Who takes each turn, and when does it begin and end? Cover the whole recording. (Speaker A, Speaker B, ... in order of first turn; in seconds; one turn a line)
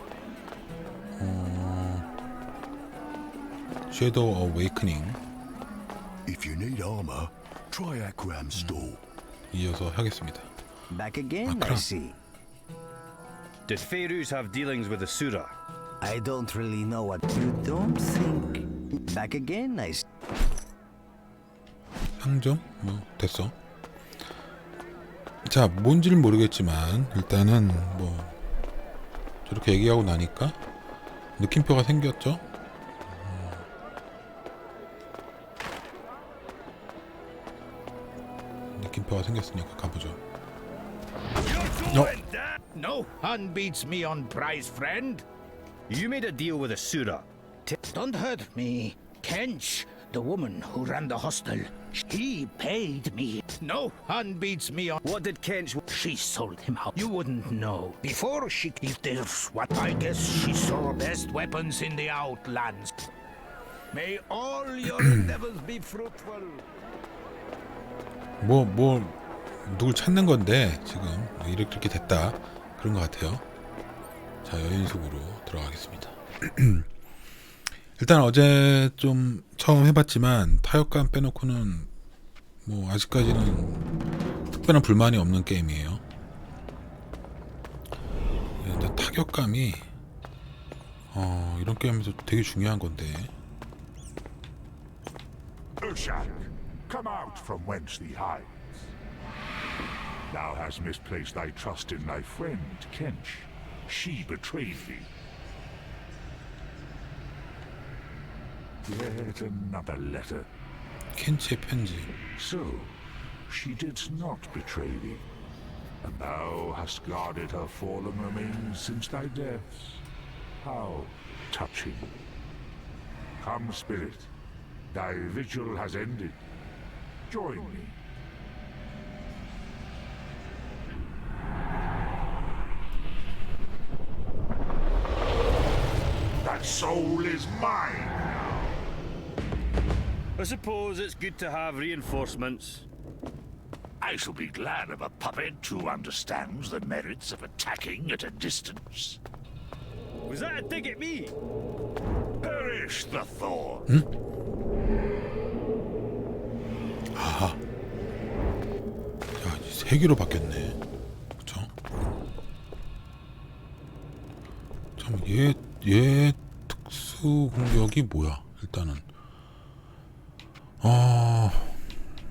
Speaker A: 1.2-2.1
Speaker A: 3.9-5.2
Speaker B: 6.3-8.9
Speaker A: 8.5-8.9
Speaker A: 9.5-10.5
Speaker C: 10.9-12.2
Speaker A: 11.4-11.8
Speaker D: 13.7-15.5
Speaker C: 16.0-20.1
Speaker A: 22.2-23.5
Speaker A: 25.4-28.4
Speaker A: 29.4-30.6
Speaker A: 31.4-32.4
Speaker A: 33.1-33.6
Speaker A: 38.8-40.2
Speaker D: 41.5-42.6
Speaker E: 42.7-45.2
Speaker D: 45.9-47.3
Speaker E: 47.7-55.0
Speaker D: 55.0-55.8
Speaker E: 55.8-62.9
Speaker E: 63.9-66.6
Speaker A: 68.4-73.4
Speaker A: 74.4-76.9
Speaker A: 78.0-81.9
Speaker A: 82.6-83.8
Speaker A: 84.5-86.0
Speaker A: 88.6-89.8
Speaker A: 91.1-93.3
Speaker F: 95.8-98.9
Speaker F: 100.3-105.1
Speaker F: 108.8-110.5
Speaker A: 111.2-112.1
Speaker F: 112.3-115.3
Speaker F: 116.0-120.0
Speaker F: 120.6-122.2
Speaker F: 123.4-124.3
Speaker F: 124.9-126.4
Speaker F: 127.3-128.0
Speaker F: 136.4-138.7
Speaker D: 140.4-142.9
Speaker F: 144.0-149.2
Speaker D: 150.3-151.3
Speaker F: 152.4-153.9
Speaker A: 157.1-157.6
Speaker A: 159.4-160.8
Speaker A: 161.4-161.7
Speaker A: 165.0-169.1
Speaker A: 170.8-171.8